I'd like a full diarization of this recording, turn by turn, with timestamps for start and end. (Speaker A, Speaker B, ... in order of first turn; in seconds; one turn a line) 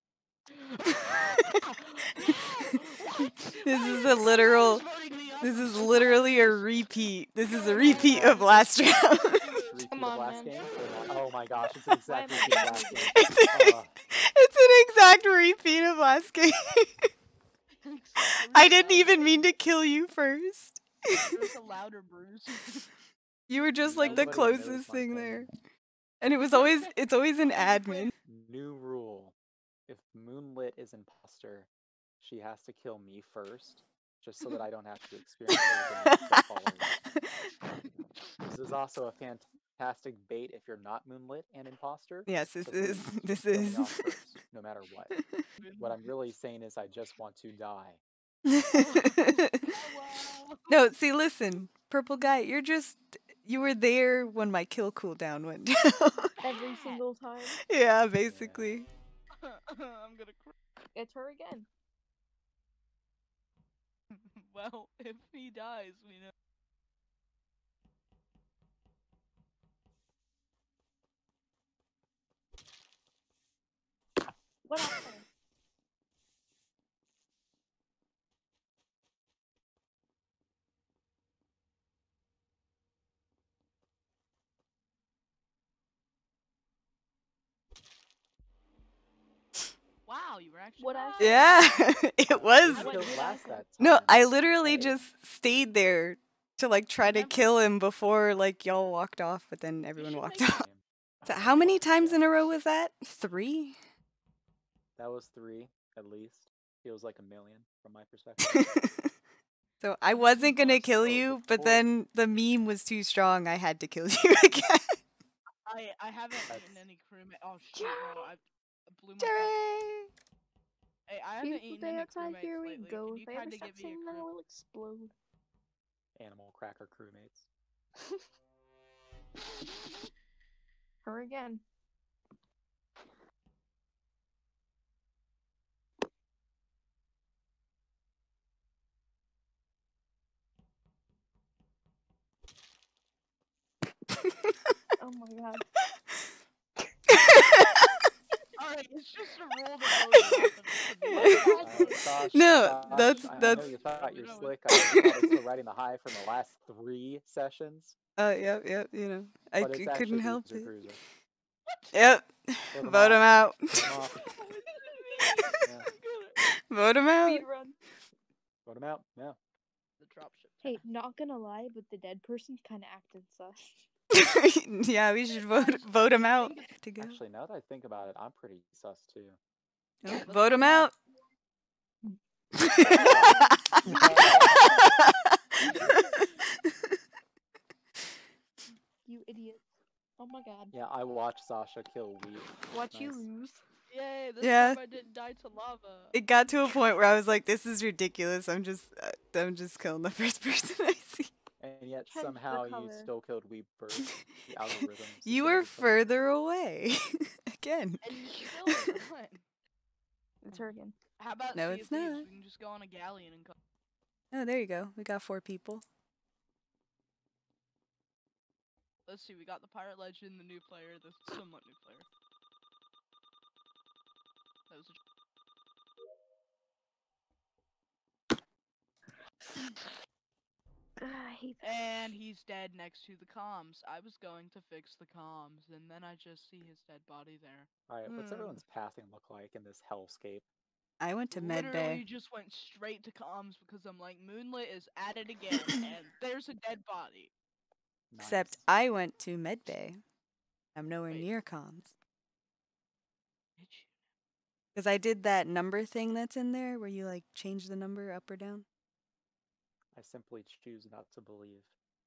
Speaker A: 0.5-6.9
Speaker B: 2.1-2.7
Speaker B: 3.6-4.8
Speaker B: 5.4-9.6
Speaker A: 7.4-9.8
Speaker C: 7.8-8.6
Speaker C: 9.6-13.9
Speaker D: 9.9-10.7
Speaker A: 10.5-11.2
Speaker D: 12.1-13.3
Speaker B: 13.1-17.1
Speaker A: 17.8-19.5
Speaker B: 18.2-21.4
Speaker A: 21.3-22.9
Speaker B: 23.5-25.5
Speaker C: 23.8-25.5
Speaker A: 24.0-24.4
Speaker B: 26.2-28.1
Speaker A: 26.4-28.1
Speaker C: 28.2-29.3
Speaker C: 29.9-31.7
Speaker C: 32.2-36.9
Speaker B: 35.5-36.4
Speaker C: 38.4-45.2
Speaker B: 42.3-44.2
Speaker B: 45.2-45.5
Speaker A: 45.6-46.1
Speaker C: 45.8-48.0
Speaker B: 48.5-49.7
Speaker A: 48.7-50.7
Speaker B: 50.7-56.3
Speaker A: 56.4-57.0
Speaker D: 56.4-57.6
Speaker B: 57.6-58.9
Speaker C: 58.2-58.8
Speaker A: 59.4-60.5
Speaker D: 60.9-61.7
Speaker A: 64.1-66.3
Speaker D: 74.7-75.3
Speaker A: 90.0-91.8
Speaker D: 90.8-91.5
Speaker B: 91.2-93.0
Speaker C: 92.3-95.0
Speaker A: 92.7-93.3
Speaker D: 92.8-93.6
Speaker B: 93.8-100.7
Speaker A: 97.0-97.5
Speaker A: 100.0-100.6
Speaker C: 100.5-102.3
Speaker B: 101.2-103.8
Speaker C: 105.0-108.7
Speaker B: 108.4-109.1
Speaker B: 109.8-115.0
Speaker A: 110.1-110.9
Speaker C: 110.8-111.9
Speaker A: 115.7-119.6
Speaker C: 116.5-116.8
Speaker D: 117.8-118.2
Speaker B: 119.2-120.1
Speaker A: 121.1-124.3
Speaker D: 121.4-125.1
Speaker C: 126.2-127.5
Speaker D: 131.0-131.6
Speaker D: 145.0-145.6
Speaker B: 147.1-147.9
Speaker A: 148.6-152.1
Speaker B: 151.1-151.6
Speaker D: 151.1-152.0
Speaker C: 151.6-157.9
Speaker B: 152.3-153.7
Speaker A: 152.8-154.6
Speaker B: 154.7-155.4
Speaker B: 158.2-160.7
Speaker C: 159.6-161.0
Speaker A: 161.7-162.0
Speaker B: 161.9-164.0
Speaker C: 162.7-164.3
Speaker A: 164.2-166.4
Speaker C: 165.6-165.9
Speaker B: 166.5-167.4
Speaker D: 167.2-167.8
Speaker C: 168.7-169.4
Speaker A: 170.0-170.8
Speaker D: 170.6-173.8
Speaker B: 174.1-177.2
Speaker A: 175.6-176.7
Speaker C: 177.0-179.4
Speaker B: 180.0-180.9
Speaker A: 180.1-180.9
Speaker B: 182.6-186.3
Speaker C: 182.8-184.8
Speaker D: 183.1-184.2
Speaker A: 183.9-184.9
Speaker A: 185.7-186.2
Speaker D: 189.1-189.6
Speaker D: 190.2-190.7
Speaker C: 190.7-193.3
Speaker D: 192.7-193.6
Speaker A: 193.9-196.1
Speaker B: 194.4-194.8
Speaker B: 196.1-201.3
Speaker C: 201.6-206.0
Speaker D: 202.1-203.1
Speaker B: 205.2-208.9
Speaker A: 208.0-209.4
Speaker D: 210.4-210.9
Speaker A: 211.2-213.5
Speaker B: 211.5-212.3
Speaker B: 214.3-215.8
Speaker A: 219.1-222.1
Speaker A: 224.7-225.0
Speaker D: 231.0-231.7
Speaker A: 231.6-238.6
Speaker C: 237.9-240.4
Speaker B: 241.0-242.0
Speaker A: 241.3-247.3
Speaker C: 248.1-248.7
Speaker B: 248.2-250.0
Speaker B: 250.7-251.9
Speaker A: 251.1-251.3
Speaker A: 253.6-254.0
Speaker B: 254.7-258.6
Speaker C: 259.9-261.7